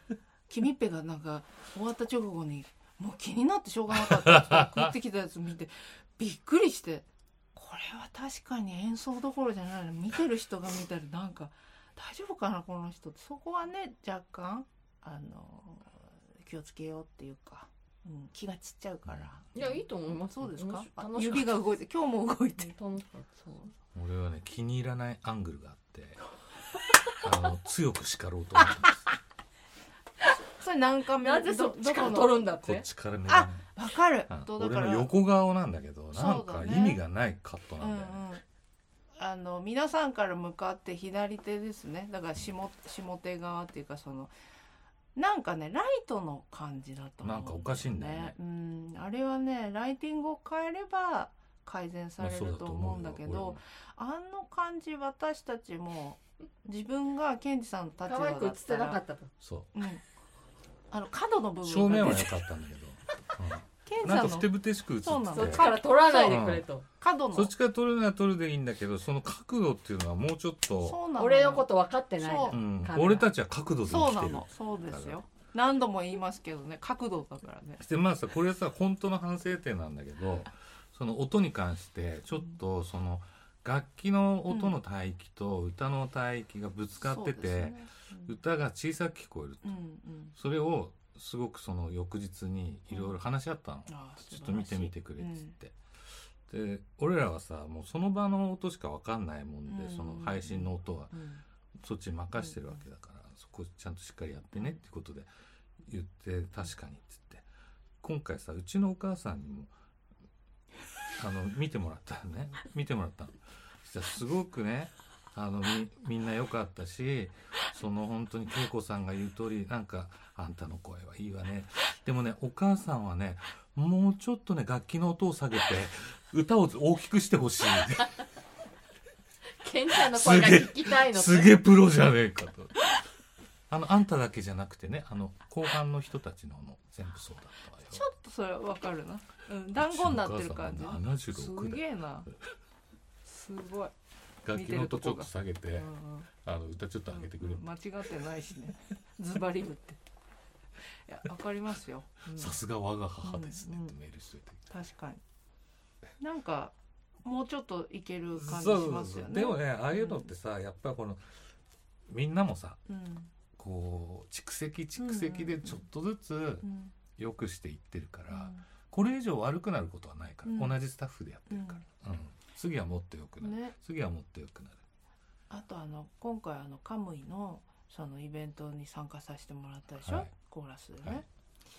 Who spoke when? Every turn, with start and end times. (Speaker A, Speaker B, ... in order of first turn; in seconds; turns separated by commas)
Speaker A: 0.5-22.8, Speaker B: 3.9-4.9, Speaker C: 19.5-21.6, Speaker C: 22.6-23.6, Speaker B: 23.9-26.2, Speaker B: 27.2-29.0, Speaker A: 30.4-32.5, Speaker C: 31.2-32.9, Speaker B: 32.6-33.6, Speaker A: 33.3-35.1, Speaker B: 34.3-38.2, Speaker A: 36.1-37.0, Speaker A: 37.8-38.4, Speaker A: 39.2-44.3, Speaker A: 45.1-59.0, Speaker B: 47.2-48.3, Speaker B: 52.2-53.6, Speaker C: 58.0-59.3, Speaker B: 59.4-59.7, Speaker A: 59.7-60.0, Speaker A: 60.9-62.4, Speaker B: 61.6-65.7, Speaker A: 63.9-67.5, Speaker C: 65.3-66.8, Speaker B: 66.2-66.7, Speaker B: 67.3-71.0, Speaker A: 70.8-72.6, Speaker C: 71.2-73.3, Speaker B: 72.5-75.2, Speaker A: 73.8-77.8, Speaker B: 77.8-89.8, Speaker A: 84.5-84.7, Speaker A: 87.0-88.3, Speaker A: 89.6-90.3, Speaker B: 90.3-95.8, Speaker A: 92.9-93.2, Speaker A: 93.9-95.5, Speaker B: 96.5-101.2, Speaker A: 99.7-101.4, Speaker B: 101.8-105.3, Speaker A: 102.4-102.8, Speaker B: 105.8-107.5, Speaker B: 108.0-109.7, Speaker B: 111.2-128.2, Speaker C: 129.6-131.6, Speaker B: 129.9-132.8, Speaker B: 133.7-138.0, Speaker A: 137.9-142.3, Speaker B: 139.8-141.8, Speaker A: 143.2-143.9, Speaker B: 144.4-147.6, Speaker A: 144.5-146.3, Speaker A: 147.1-150.0, Speaker A: 151.1-152.5, Speaker B: 152.3-154.7, Speaker A: 153.2-153.9, Speaker A: 154.7-155.2, Speaker A: 156.2-160.3, Speaker B: 158.3-161.3, Speaker B: 162.1-162.8, Speaker A: 162.9-163.3, Speaker B: 163.6-166.6, Speaker A: 165.0-165.8, Speaker A: 166.6-166.9, Speaker B: 167.2-174.8, Speaker A: 168.3-168.7, Speaker A: 170.4-170.7, Speaker A: 171.5-171.8, Speaker A: 173.4-173.7, Speaker A: 175.5-181.2, Speaker B: 180.0-180.3